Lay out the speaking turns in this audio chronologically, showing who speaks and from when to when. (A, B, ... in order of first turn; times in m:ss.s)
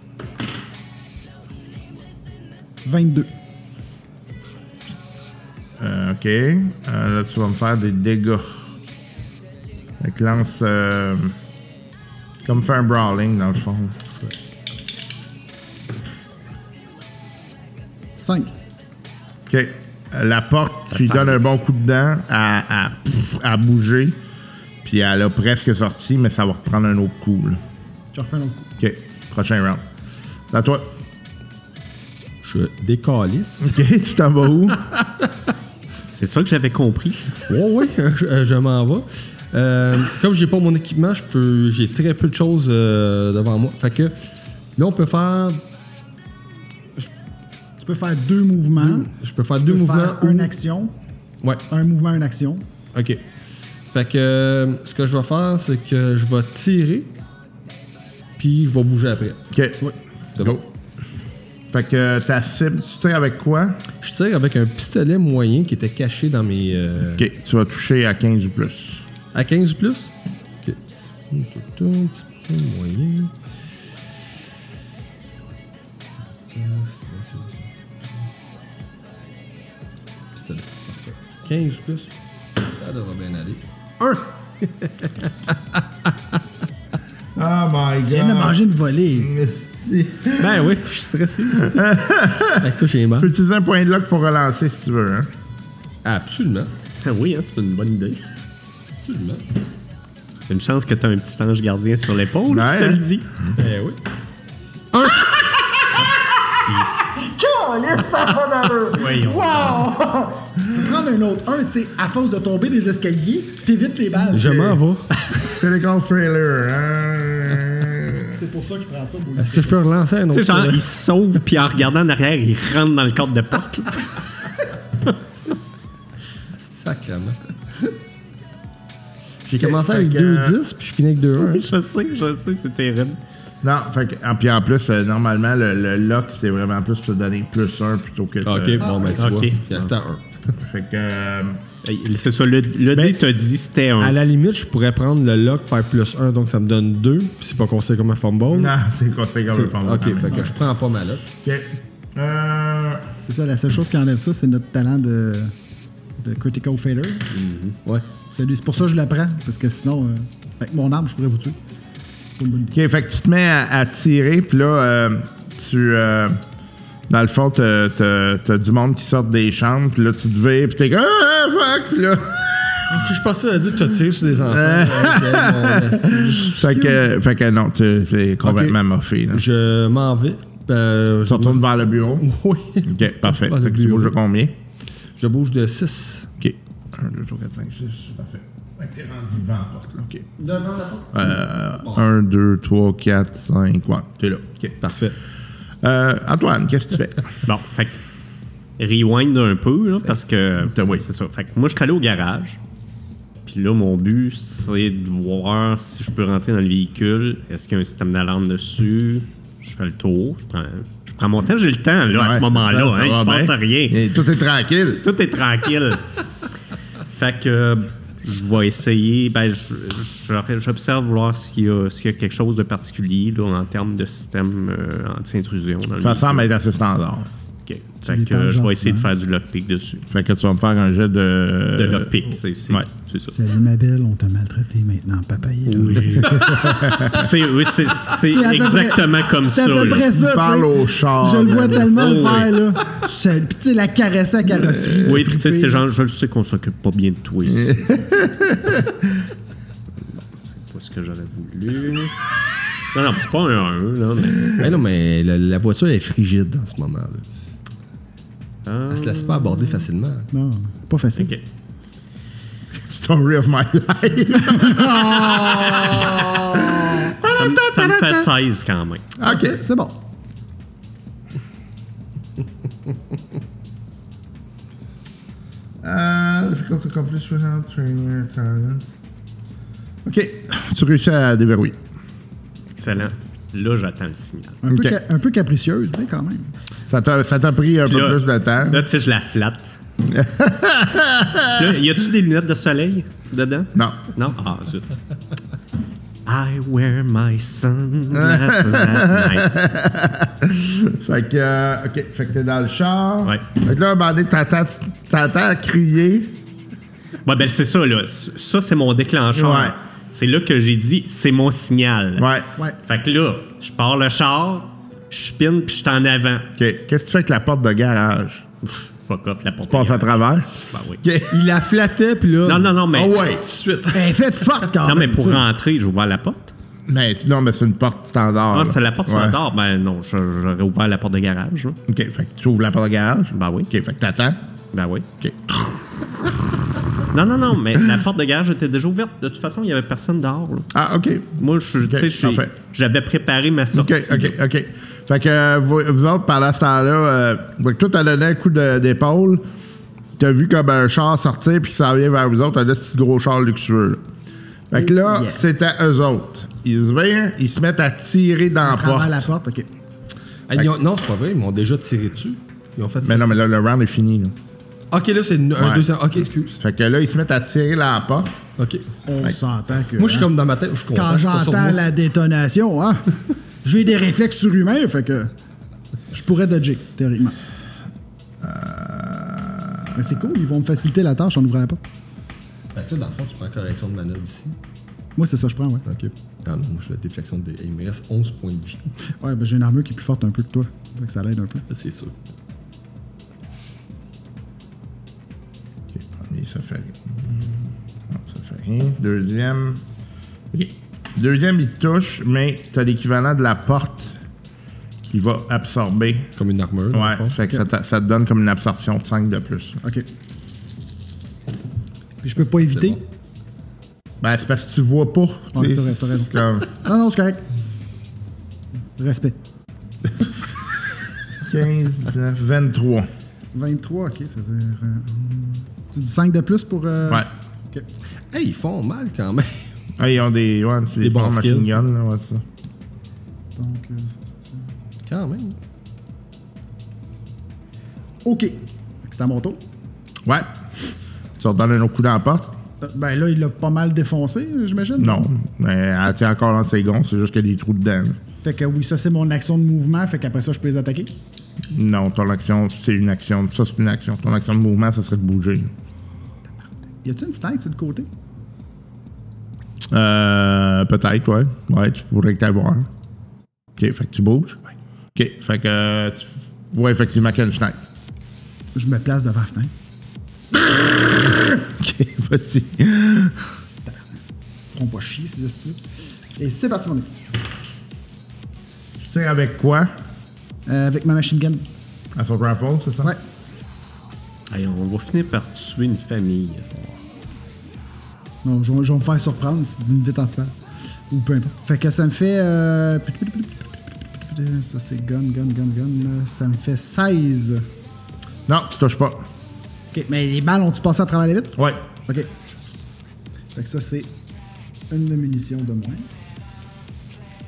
0:02.8-0:03.3 A
0:05.8-0:08.6 B
0:10.0-0:11.4 B
0:12.4-0:14.1 B
0:18.2-0:18.5 A
0:19.5-0:24.2 B
0:20.9-0:21.4 C
0:24.8-0:27.6 B
0:28.1-0:28.7 A
0:28.8-0:29.8 B
0:30.5-0:30.9 B
0:32.4-0:33.8 D
0:33.6-0:34.8 B
0:36.1-0:37.4 C
0:37.4-0:44.2 D
0:44.8-0:45.6 D
0:47.8-0:49.1 A
0:48.8-0:50.5 D
0:49.6-0:50.9 A
0:51.7-0:52.6 A
0:52.9-0:53.2 D
0:53.9-0:57.1 D
0:58.4-0:59.4 D
0:59.5-0:59.8 B
1:00.4-1:00.6 B
1:00.4-1:00.6 D
1:01.7-1:03.8 B
1:04.0-1:07.2 D
1:07.1-1:09.0 B
1:09.3-1:13.3 D
1:16.5-1:17.7 D
1:20.3-1:26.1 D
1:27.3-1:30.7 B
1:28.0-1:29.3 A
1:30.4-1:30.7 C
1:30.4-1:31.8 D
1:31.6-1:35.3 B
1:32.6-1:33.3 D
1:36.0-1:36.7 D
1:37.0-1:38.2 C
1:39.0-1:39.4 D
1:40.5-1:43.2 C
1:42.5-1:43.5 B
1:43.6-1:44.0 D
1:44.9-1:45.5 D
1:46.6-1:46.8 C
1:47.2-1:48.7 A
1:48.0-1:50.0 B
1:48.9-1:49.9 C
1:49.5-1:54.8 A
1:54.3-1:55.1 D
1:55.5-1:58.3 B
1:58.3-1:59.9 A
1:59.4-2:00.9 D
2:00.3-2:04.1 C
2:06.5-2:07.9 D
2:09.4-2:11.7 D
2:09.6-2:10.6 B
2:11.4-2:13.2 C
2:13.6-2:19.0 B
2:18.4-2:20.5 D
2:18.8-2:19.2 A
2:19.1-2:19.9 C
2:20.6-2:21.6 B
2:21.8-2:24.1 C
2:22.9-2:23.2 D
2:24.0-2:28.7 D
2:28.5-2:30.5 B
2:29.5-2:31.3 D
2:31.4-2:33.0 B
2:33.2-2:35.5 A
2:36.2-2:37.3 A
2:38.3-2:41.6 A
2:42.4-2:42.7 A
2:42.7-2:46.4 B
2:47.1-2:53.1 B
2:52.9-2:57.0 D
2:54.4-2:59.4 B
2:58.4-2:58.8 D
2:59.3-3:04.1 D
3:01.2-3:02.2 B
3:02.8-3:04.5 B
3:05.2-3:06.3 D
3:06.4-3:10.3 B
3:10.4-3:12.0 D
3:11.1-3:14.8 B
3:14.8-3:15.1 D
3:15.8-3:17.3 B
3:17.4-3:18.0 C
3:18.8-3:22.6 C
3:20.6-3:21.0 B
3:23.4-3:34.0 C
3:32.1-3:35.0 B
3:35.0-3:36.0 C
3:37.1-3:46.5 C
3:46.0-3:47.3 B
3:47.6-3:50.0 C
3:48.1-3:49.1 A
3:50.1-3:52.1 B
3:51.8-3:53.3 C
3:53.3-3:57.3 A
3:55.6-4:00.1 C
3:56.4-3:57.3 B
3:58.0-4:05.8 A
4:00.0-4:02.4 B
4:01.8-4:02.6 C
4:04.6-4:05.2 B
4:05.0-4:07.9 C
4:07.4-4:09.0 B
4:10.1-4:12.1 C
4:12.9-4:14.6 C
4:14.6-4:17.2 D
4:18.6-4:19.9 C
4:18.9-4:20.3 D
4:20.3-4:21.3 A
4:22.7-4:28.3 B
4:24.5-4:27.1 A
4:27.2-4:29.0 C
4:29.2-4:29.6 B
4:29.2-4:30.0 A
4:35.8-4:38.8 B
4:40.0-4:41.8 B
4:42.7-4:44.6 C
4:44.6-4:46.5 A
4:44.7-4:45.0 B
4:46.9-4:48.8 B
4:47.8-4:49.8 C
4:50.0-4:51.8 B
4:51.5-4:55.0 C
4:53.7-4:54.0 B
4:56.2-4:59.6 C
4:58.1-5:06.4 B
5:07.2-5:12.3 C
5:09.3-5:09.7 B
5:12.2-5:12.5 B
5:12.8-5:16.5 C
5:16.5-5:18.5 B
5:18.6-5:20.1 C
5:19.7-5:20.5 B
5:20.7-5:21.0 C
5:21.0-5:21.4 B
5:21.3-5:24.2 D
5:22.4-5:23.2 C
5:23.9-5:25.5 A
5:24.8-5:26.5 C
5:26.9-5:29.4 B
5:28.5-5:31.8 C
5:31.9-5:34.4 B
5:33.3-5:33.7 C
5:34.7-5:35.0 C
5:35.2-5:36.3 B
5:37.1-5:40.7 C
5:40.7-5:42.5 B
5:41.4-5:44.3 C
5:43.7-5:49.4 B
5:50.2-5:54.0 B
5:54.7-5:59.2 B
5:54.8-5:55.4 A
5:58.6-5:59.7 A
6:00.5-6:03.4 D
6:03.0-6:04.3 B
6:04.9-6:06.6 D
6:05.6-6:05.9 B
6:06.6-6:08.4 B
6:08.6-6:08.9 D
6:09.0-6:10.3 A
6:10.0-6:11.8 D
6:10.9-6:13.1 A
6:13.6-6:15.3 A
6:16.1-6:17.4 A
6:18.4-6:20.2 B
6:19.9-6:21.8 A
6:22.7-6:24.6 D
6:25.2-6:25.8 A
6:25.8-6:28.8 D
6:29.2-6:31.6 A
6:31.7-6:32.1 D
6:35.9-6:39.8 B
6:40.5-6:44.2 B
6:45.0-6:46.3 B
6:46.4-6:47.4 D
6:46.9-6:49.8 B
6:52.2-6:53.0 A
6:54.2-6:56.7 B
6:55.5-6:57.4 A
6:59.0-6:59.4 A
7:01.4-7:03.1 B
7:03.5-7:07.9 A
7:08.3-7:09.6 D
7:10.0-7:12.4 B
7:11.0-7:11.7 D
7:13.6-7:14.6 A
7:15.1-7:15.6 D
7:18.2-7:19.6 A
7:21.4-7:22.6 B
7:22.8-7:25.3 A
7:25.0-7:28.2 B
7:28.4-7:31.1 A
7:31.7-7:35.7 B
7:37.0-7:38.1 A
7:39.9-7:42.9 B
7:43.8-7:44.6 B
7:45.1-7:47.8 B
7:48.7-7:49.7 A
7:50.5-7:53.5 B
7:53.6-7:54.2 A
7:54.7-7:55.8 A
7:56.4-7:57.1 A
7:59.0-7:59.9 B
8:00.7-8:01.6 A
8:02.2-8:03.1 B
8:04.5-8:06.8 C
8:08.4-8:10.5 A
8:11.1-8:17.7 A
8:18.5-8:19.2 B
8:19.9-8:22.3 A
8:23.5-8:24.1 A
8:24.9-8:26.1 A